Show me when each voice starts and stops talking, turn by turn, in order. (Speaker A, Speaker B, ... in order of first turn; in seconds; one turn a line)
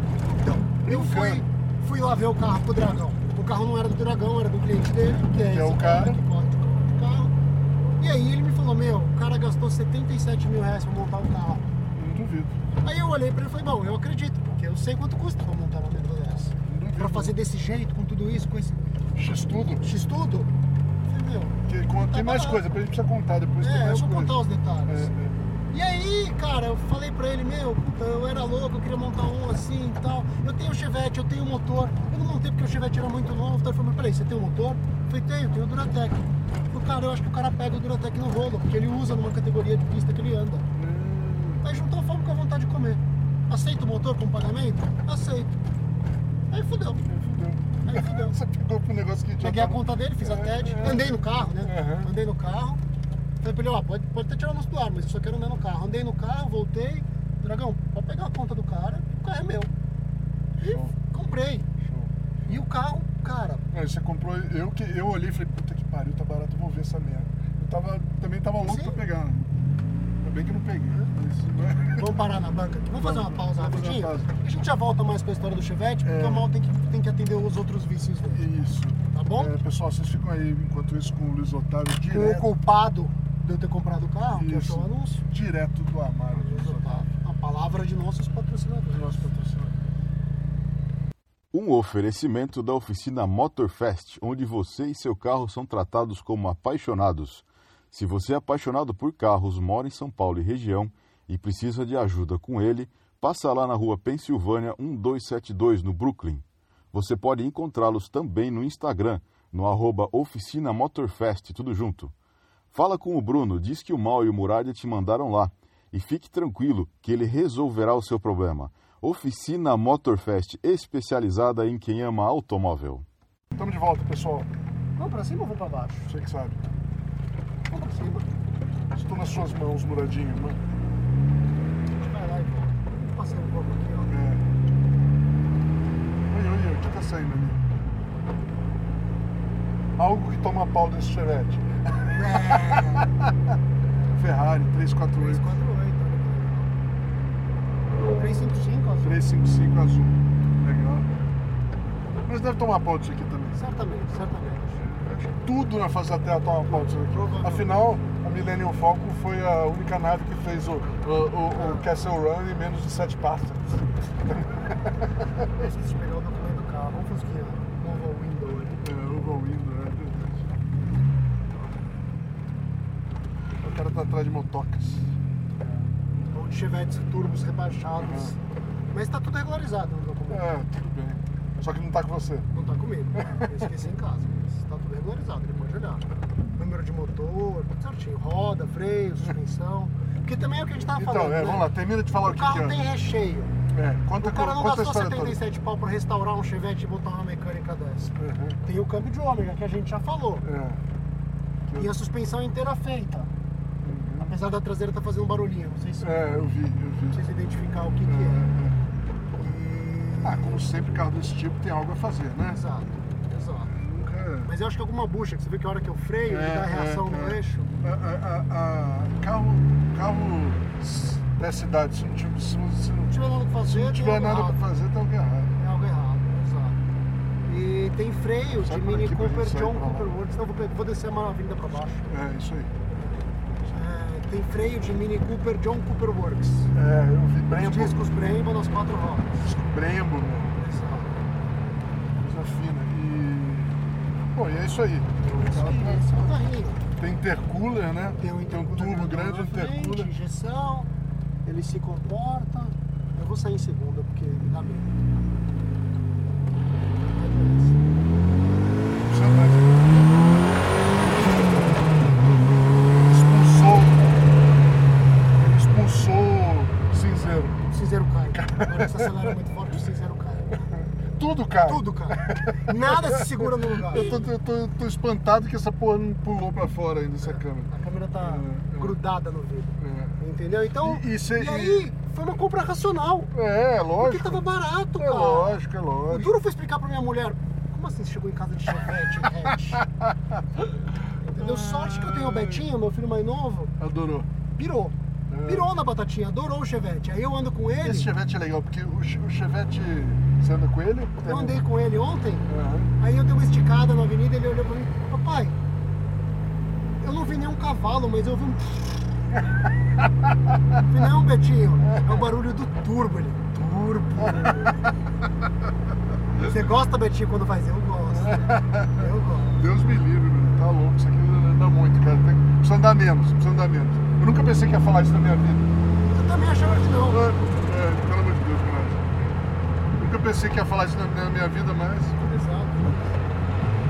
Speaker A: 0.2-7.3
Speaker B: 0.8-1.4
Speaker B: 5.5-6.2
Speaker A: 8.0-11.6
Speaker B: 11.9-12.6
Speaker A: 12.8-18.9
Speaker B: 16.6-17.3
Speaker B: 19.1-19.9
Speaker A: 19.8-20.5
Speaker A: 21.1-22.7
Speaker B: 21.7-25.4
Speaker A: 23.6-25.1
Speaker A: 25.7-40.7
Speaker B: 40.7-41.6
Speaker A: 41.6-45.6
Speaker A: 46.5-47.0
Speaker B: 47.0-52.1
Speaker A: 47.9-48.4
Speaker A: 49.4-52.8
Speaker A: 53.4-59.7
Speaker B: 60.6-60.9
Speaker A: 60.6-61.7
Speaker B: 61.8-62.6
Speaker A: 62.5-63.6
Speaker B: 63.7-69.4
Speaker A: 68.6-69.0
Speaker B: 70.2-72.1
Speaker A: 72.0-78.4
Speaker B: 73.0-74.3
Speaker B: 76.0-76.5
Speaker B: 78.3-82.5
Speaker A: 79.1-79.5
Speaker A: 82.1-85.2
Speaker B: 84.3-87.0
Speaker A: 86.3-89.3
Speaker B: 88.9-89.7
Speaker C: 91.5-112.1
Speaker C: 112.7-123.0
Speaker B: 123.5-124.5
Speaker A: 125.0-126.1
Speaker B: 126.1-126.6
Speaker A: 127.7-128.3
Speaker B: 128.9-130.6
Speaker A: 132.0-134.2
Speaker B: 134.1-134.4
Speaker B: 136.3-137.6
Speaker B: 140.0-143.3
Speaker A: 142.1-143.1
Speaker B: 144.1-145.4
Speaker A: 145.2-146.7
Speaker A: 148.2-149.2
Speaker B: 149.0-151.1
Speaker B: 152.2-153.6
Speaker A: 153.6-154.8
Speaker B: 154.8-165.1
Speaker A: 156.7-157.7
Speaker A: 161.6-161.9
Speaker A: 165.5-168.8
Speaker B: 168.7-170.5
Speaker B: 173.6-175.1
Speaker A: 175.6-178.4
Speaker B: 178.0-178.3
Speaker A: 178.9-180.6
Speaker B: 180.3-182.5
Speaker A: 182.5-186.1
Speaker B: 183.2-183.7
Speaker A: 186.6-191.7
Speaker B: 190.9-192.8
Speaker A: 192.2-193.5
Speaker B: 193.7-195.4
Speaker A: 194.2-200.4
Speaker B: 198.2-198.6
Speaker B: 200.4-200.8
Speaker A: 201.8-203.3
Speaker B: 203.8-204.3
Speaker A: 204.2-206.2
Speaker B: 206.0-207.2
Speaker A: 207.1-208.5
Speaker B: 208.1-208.8
Speaker A: 209.3-210.7
Speaker B: 210.2-212.6
Speaker A: 212.5-213.8
Speaker B: 213.7-214.5
Speaker A: 214.4-217.7
Speaker B: 216.2-225.5
Speaker A: 223.1-224.6
Speaker A: 225.6-226.8
Speaker A: 227.4-232.1
Speaker B: 228.6-230.2
Speaker B: 232.1-232.7
Speaker A: 233.7-236.7
Speaker B: 236.7-238.0
Speaker A: 237.6-239.4
Speaker B: 239.4-240.5
Speaker A: 240.6-241.1
Speaker B: 242.2-246.3
Speaker A: 245.2-246.8
Speaker B: 247.0-250.1
Speaker A: 248.2-250.9
Speaker A: 251.4-255.2
Speaker A: 257.0-257.8
Speaker B: 259.0-260.0
Speaker B: 261.1-261.7
Speaker B: 263.0-264.3
Speaker B: 265.4-267.6
Speaker A: 267.7-270.6
Speaker B: 268.3-269.3
Speaker B: 271.1-278.9
Speaker A: 271.7-274.3
Speaker A: 277.2-283.3
Speaker B: 279.8-280.2
Speaker B: 280.8-281.9
Speaker B: 283.3-284.4
Speaker A: 284.0-289.8
Speaker B: 285.0-286.3
Speaker B: 289.7-292.6
Speaker A: 291.2-293.7
Speaker B: 293.8-294.3
Speaker A: 294.5-298.1
Speaker B: 295.3-295.7
Speaker B: 297.8-301.6
Speaker A: 301.2-305.6
Speaker B: 302.5-302.9
Speaker A: 307.0-309.0
Speaker A: 310.8-314.8
Speaker B: 314.2-314.8
Speaker A: 316.4-319.6
Speaker B: 318.2-325.7
Speaker A: 326.1-327.2
Speaker B: 327.0-329.1
Speaker B: 330.0-332.1
Speaker A: 332.2-333.2